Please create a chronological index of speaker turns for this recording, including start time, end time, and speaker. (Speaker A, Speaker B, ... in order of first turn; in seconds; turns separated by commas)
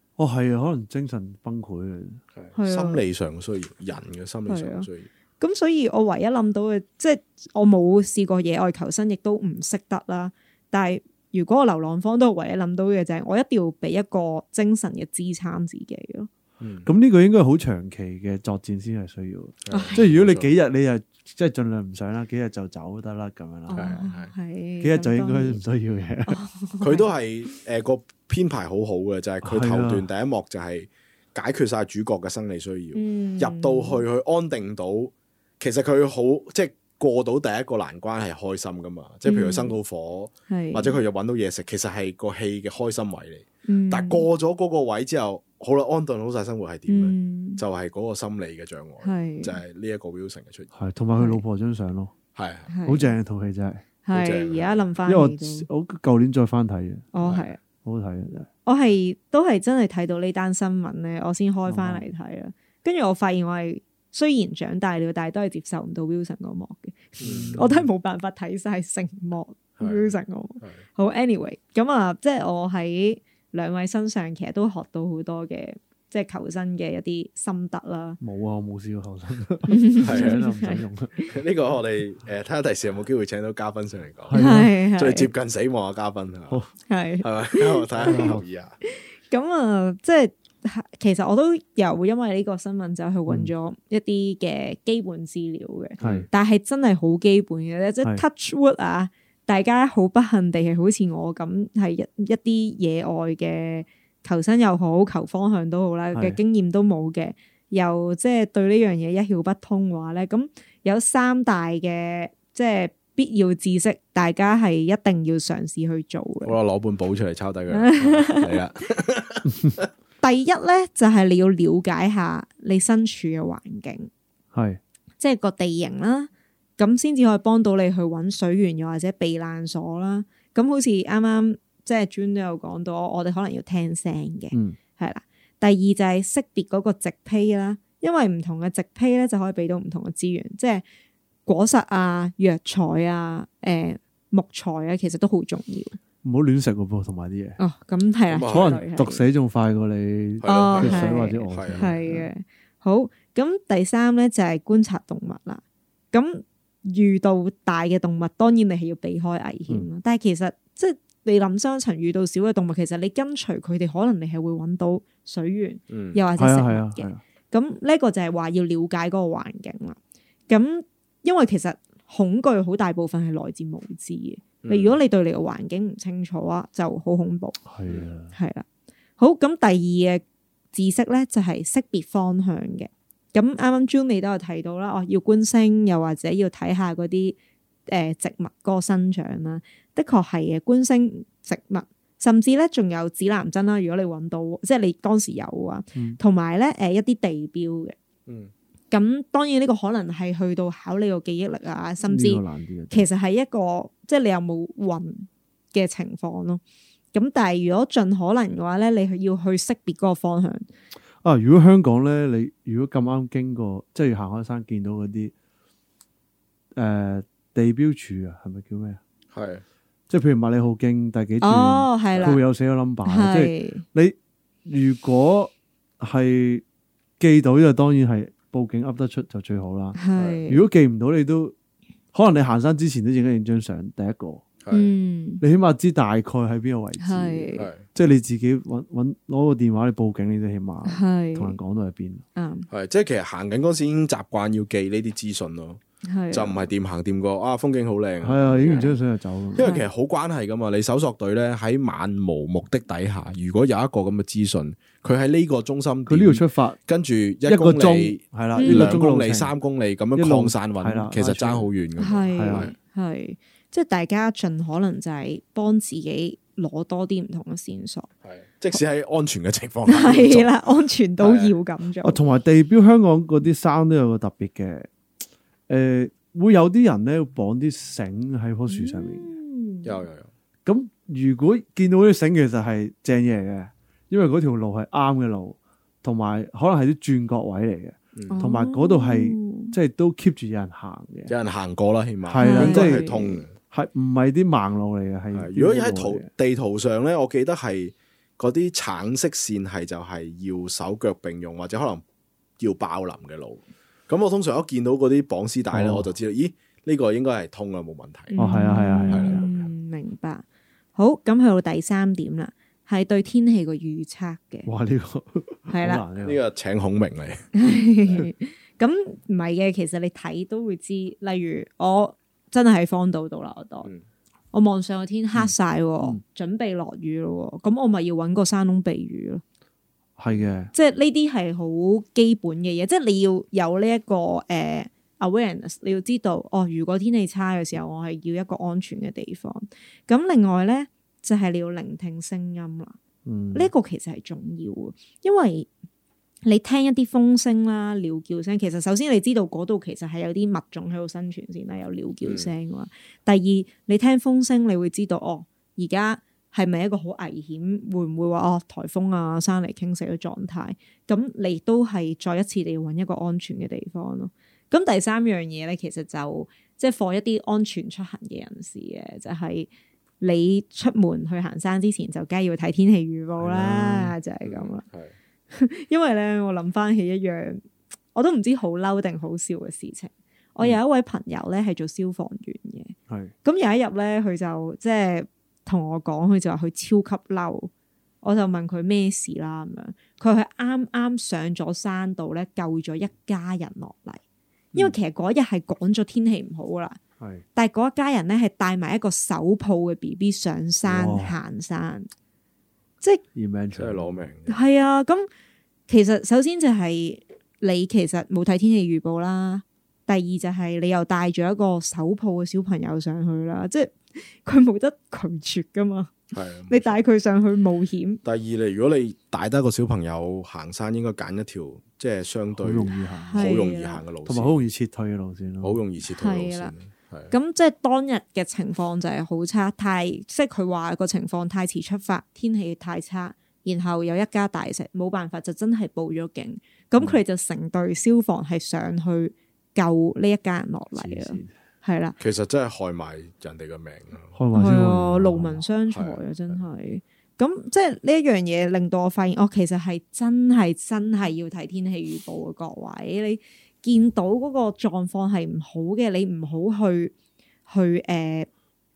Speaker A: 0.2-2.2, Speaker B: 2.4-5.1, Speaker C: 2.6-3.0, Speaker C: 4.5-4.9, Speaker C: 5.4-16.3, Speaker B: 16.6-16.9, Speaker A: 16.9-23.9, Speaker B: 19.7-20.5, Speaker C: 19.7-20.1, Speaker C: 23.7-25.6, Speaker B: 23.8-24.3, Speaker A: 24.8-26.4, Speaker C: 26.3-27.5, Speaker B: 26.8-50.7, Speaker A: 29.4-30.1, Speaker C: 32.9-34.0, Speaker C: 39.2-39.8, Speaker C: 40.5-41.0, Speaker C: 43.6-44.3, Speaker C: 46.9-47.6, Speaker C: 49.0-49.6, Speaker A: 50.7-52.1, Speaker C: 51.2-51.4, Speaker B: 52.4-52.7, Speaker C: 52.7-53.1, Speaker A: 52.9-53.9, Speaker C: 54.0-55.7, Speaker B: 54.1-54.9, Speaker A: 55.0-57.1, Speaker C: 57.1-57.6, Speaker A: 57.8-58.5, Speaker C: 58.7-78.2, Speaker A: 61.7-62.0, Speaker B: 67.2-67.7, Speaker A: 67.2-67.8, Speaker B: 69.8-70.8, Speaker A: 78.2-81.2, Speaker C: 79.7-81.3, Speaker B: 80.0-80.4, Speaker B: 81.3-86.6, Speaker A: 84.3-84.7, Speaker C: 84.3-85.3, Speaker C: 86.9-116.6, Speaker B: 87.2-88.8, Speaker A: 88.0-88.4, Speaker B: 96.0-96.3, Speaker A: 96.0-96.3, Speaker B: 116.5-119.9, Speaker C: 117.7-118.5, Speaker C: 120.2-124.1, Speaker A: 124.5-124.8, Speaker C: 125.2-140.8, Speaker C: 141.5-146.0, Speaker A: 146.2-147.6, Speaker C: 147.6-149.2, Speaker B: 148.3-148.8, Speaker A: 148.5-152.3, Speaker B: 150.4-151.9, Speaker C: 150.4-170.0, Speaker B: 165.9-166.2, Speaker A: 166.4-167.2, Speaker C: 170.5-177.6, Speaker B: 174.6-175.0, Speaker A: 177.7-178.3, Speaker C: 178.3-178.7, Speaker C: 179.2-187.4, Speaker C: 187.9-197.9, Speaker B: 198.3-198.5, Speaker C: 198.9-206.6, Speaker A: 202.0-203.1, Speaker C: 207.1-210.7, Speaker A: 211.2-215.3, Speaker A: 216.8-219.0, Speaker B: 219.3-219.6, Speaker A: 220.1-226.6, Speaker C: 221.4-222.4, Speaker C: 223.1-223.8, Speaker A: 227.2-231.5, Speaker C: 230.0-230.7, Speaker B: 230.2-230.4, Speaker A: 232.1-234.4, Speaker B: 234.6-234.9, Speaker C: 234.7-235.4, Speaker A: 235.4-242.2, Speaker C: 237.0-237.7, Speaker B: 237.6-237.8, Speaker C: 240.9-241.6, Speaker C: 242.4-242.7, Speaker B: 242.7-245.8, Speaker C: 246.0-246.7, Speaker B: 246.3-248.9, Speaker A: 248.2-249.7, Speaker C: 248.6-248.9, Speaker B: 249.5-262.8, Speaker C: 249.6-249.9, Speaker A: 256.1-256.8, Speaker A: 257.5-259.5, Speaker C: 258.6-259.0, Speaker A: 260.2-261.7, Speaker C: 262.0-268.1, Speaker A: 262.3-262.7, Speaker B: 268.2-270.6, Speaker C: 269.9-272.2, Speaker B: 271.2-271.6, Speaker A: 272.0-274.9, Speaker A: 275.7-279.3, Speaker C: 278.7-280.1, Speaker B: 279.9-280.3, Speaker A: 280.7-291.3, Speaker C: 288.3-289.8, Speaker B: 291.3-293.5, Speaker A: 292.3-293.1, Speaker C: 292.4-293.4, Speaker A: 293.6-296.3, Speaker B: 295.3-302.0, Speaker B: 302.6-308.4, Speaker A: 305.7-306.1, Speaker C: 308.3-310.4, Speaker A: 308.4-309.5, Speaker B: 309.1-309.7, Speaker C: 311.0-314.7, Speaker A: 314.7-316.4, Speaker C: 315.7-316.0, Speaker B: 316.2-318.2, Speaker C: 317.6-323.9, Speaker C: 324.5-329.4, Speaker A: 330.2-330.7, Speaker C: 330.7-343.0, Speaker A: 343.2-343.7, Speaker C: 343.5-345.7, Speaker C: 346.4-369.7, Speaker B: 352.2-352.5, Speaker C: 370.2-374.8, Speaker A: 373.4-374.1, Speaker B: 374.4-375.1, Speaker C: 375.5-387.7, Speaker C: 388.2-394.2, Speaker C: 394.7-397.0, Speaker A: 397.2-397.4, Speaker C: 397.6-402.1, Speaker A: 400.9-401.4, Speaker A: 403.4-404.2, Speaker B: 403.8-404.6, Speaker C: 404.5-405.3, Speaker C: 405.9-418.2, Speaker B: 416.3-417.1, Speaker B: 418.2-424.6, Speaker A: 422.6-423.5, Speaker C: 423.3-424.0, Speaker A: 424.2-425.8, Speaker B: 425.6-427.3, Speaker C: 426.1-426.7, Speaker C: 427.3-442.2, Speaker A: 440.9-441.5, Speaker B: 442.2-444.4, Speaker A: 444.3-445.6, Speaker C: 444.5-457.1, Speaker B: 445.9-446.6, Speaker C: 457.7-458.5